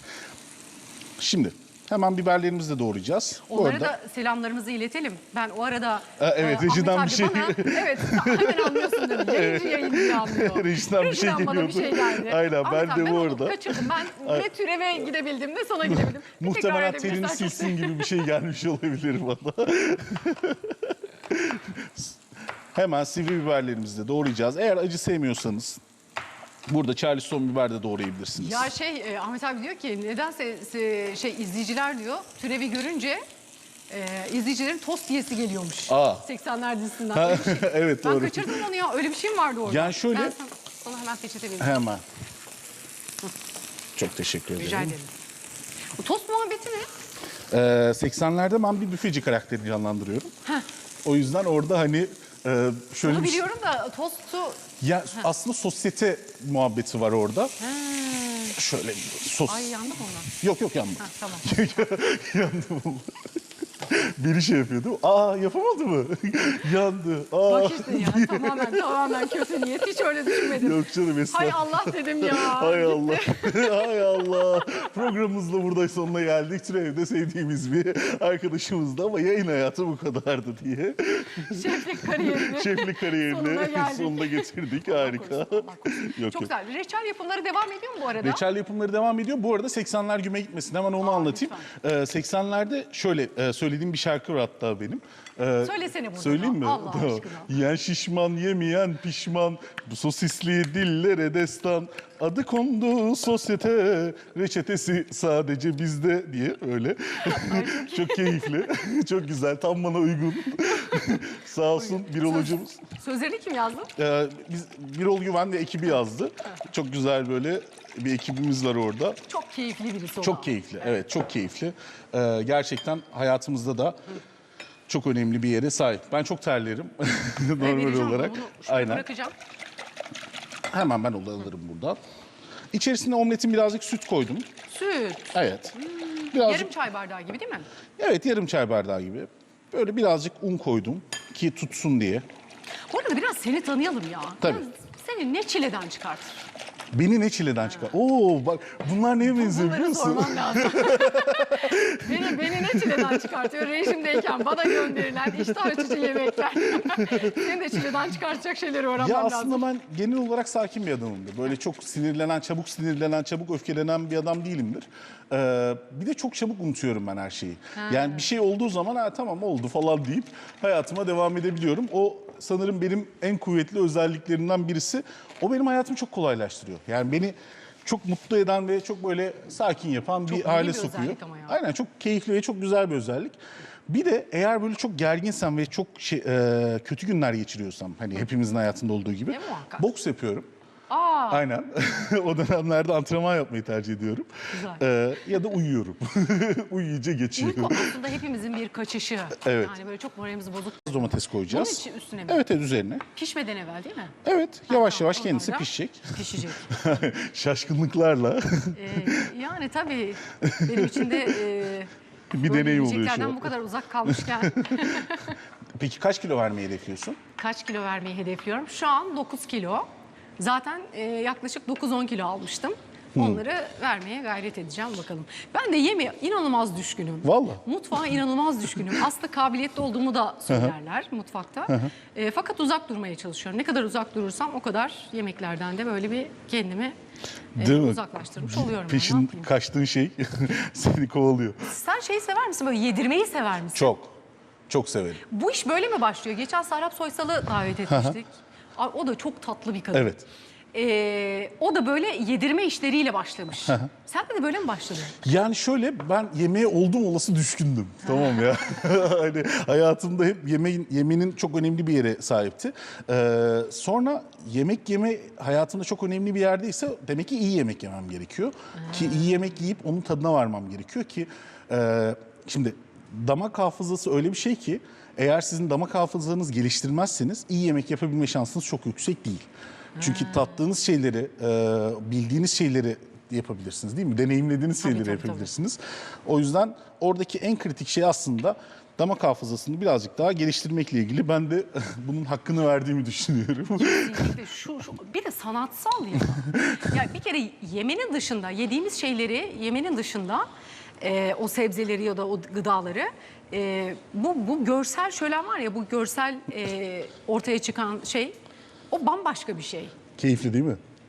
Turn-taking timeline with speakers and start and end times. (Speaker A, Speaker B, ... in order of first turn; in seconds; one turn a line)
Speaker A: 1.2-3.9
Speaker B: 3.5-18.2
Speaker A: 6.2-14.5
Speaker A: 15.8-22.1
Speaker A: 22.7-25.8
Speaker A: 26.7-28.7
Speaker B: 28.4-33.2
Speaker B: 33.9-41.8
Speaker A: 35.9-36.2
Speaker A: 37.1-38.6
Speaker A: 39.6-40.3
Speaker A: 41.6-42.0
Speaker A: 44.0-45.0
Speaker B: 44.6-45.1
Speaker B: 46.0-46.9
Speaker A: 47.5-50.3
Speaker A: 51.0-53.4
Speaker B: 53.0-55.3
Speaker A: 54.8-57.5
Speaker B: 57.6-58.6
Speaker A: 58.5-59.8
Speaker B: 59.5-60.3
Speaker A: 60.4-63.2
Speaker B: 61.0-61.6
Speaker A: 63.8-69.7
Speaker B: 67.4-74.9
Speaker A: 70.2-86.5
Speaker B: 81.3-88.4
Speaker A: 88.2-112.8
Speaker B: 91.0-91.7
Speaker B: 95.6-97.5
Speaker B: 107.2-108.6
Speaker B: 110.6-111.1
Speaker B: 111.8-113.9
Speaker A: 114.0-119.2
Speaker B: 119.3-121.0
Speaker A: 120.2-124.0
Speaker A: 124.9-129.0
Speaker B: 127.6-129.3
Speaker A: 130.7-132.0
Speaker A: 132.7-134.5
Speaker B: 134.7-137.7
Speaker A: 135.3-136.7
Speaker A: 138.0-142.2
Speaker B: 142.9-146.4
Speaker A: 146.9-157.8
Speaker B: 147.7-147.9
Speaker B: 149.2-159.6
Speaker A: 159.0-190.5
Speaker B: 167.8-168.3
Speaker B: 180.3-181.6
Speaker B: 189.3-189.9
Speaker B: 190.9-191.4
Speaker A: 191.3-197.9
Speaker B: 194.5-194.8
Speaker B: 197.3-202.4
Speaker A: 199.4-199.7
Speaker A: 200.9-203.1
Speaker B: 203.1-204.1
Speaker A: 204.2-209.3
Speaker B: 204.7-206.8
Speaker B: 208.7-211.9
Speaker A: 210.4-211.4
Speaker A: 212.3-213.5
Speaker B: 212.4-215.4
Speaker A: 214.0-217.2
Speaker B: 217.4-236.9
Speaker A: 223.1-223.4
Speaker A: 227.2-227.6
Speaker A: 230.5-230.7
Speaker A: 231.7-231.9
Speaker B: 237.6-239.5
Speaker A: 237.6-241.7
Speaker B: 241.7-243.9
Speaker A: 243.7-244.1
Speaker A: 244.7-245.2
Speaker B: 245.2-250.1
Speaker A: 247.9-248.2
Speaker A: 249.9-250.2
Speaker B: 250.7-255.2
Speaker A: 255.2-294.3
Speaker B: 258.0-258.5
Speaker B: 268.7-269.4
Speaker B: 279.9-280.6
Speaker B: 284.8-285.5
Speaker B: 293.8-300.4
Speaker B: 301.0-308.4
Speaker B: 308.9-309.9
Speaker A: 310.2-310.8